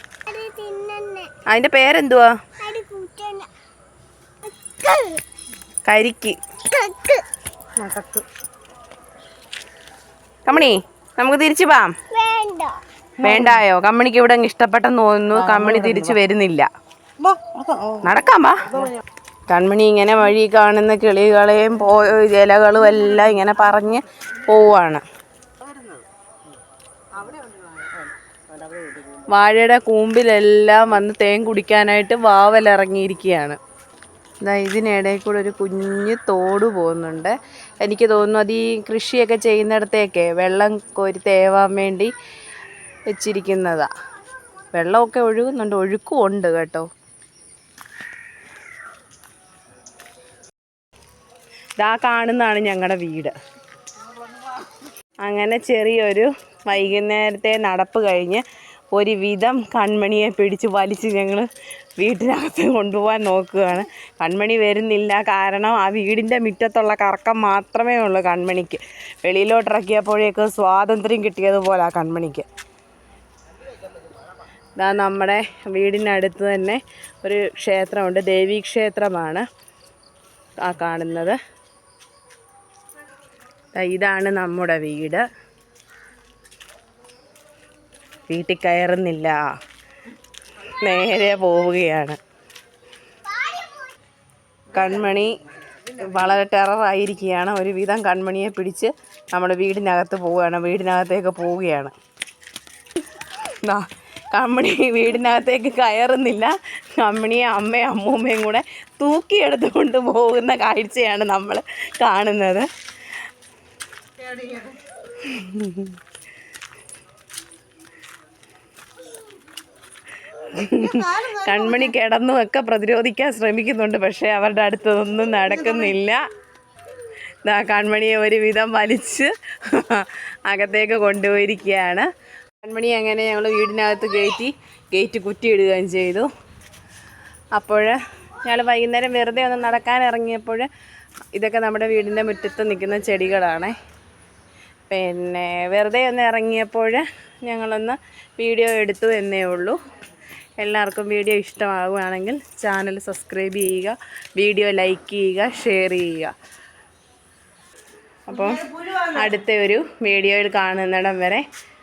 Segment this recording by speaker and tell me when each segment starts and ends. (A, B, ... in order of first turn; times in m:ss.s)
0:00.2-0:01.3 A
0:01.4-0:02.4 B
0:02.6-0:03.5 A
0:04.4-0:05.2 A
0:05.8-0:06.4 B
0:06.7-0:07.2 A
0:07.8-0:08.2 C
0:10.4-0:11.9 B
0:12.1-0:12.8 A
0:13.2-0:13.6 C
0:13.2-0:16.7 B
0:15.4-0:16.2 C
0:17.2-0:18.1 C
0:18.0-0:18.9 B
0:18.7-0:19.0 C
0:19.5-0:25.0 B
0:25.6-0:26.0 C
0:27.1-0:29.3 C
0:29.3-0:33.6 B
0:34.4-0:42.1 B
0:43.1-0:43.9 B
0:44.7-0:46.9 B
0:51.8-0:53.3 B
0:55.2-1:01.5 B
1:02.0-1:12.4 B
1:14.8-1:19.4 B
1:20.6-1:21.4 B
1:23.7-1:25.2 B
1:28.3-1:29.4 B
1:30.6-1:32.2 B
1:34.7-1:35.4 B
1:35.9-1:41.9 B
1:43.4-1:52.7 B
1:55.2-1:55.9 B
2:00.4-2:06.2 B
2:07.4-2:12.1 B
2:12.6-2:16.3 B
2:17.6-2:20.7 B
2:21.3-2:23.7 B
2:24.9-2:29.8 B
2:30.6-2:36.3 B
2:38.3-2:41.4 B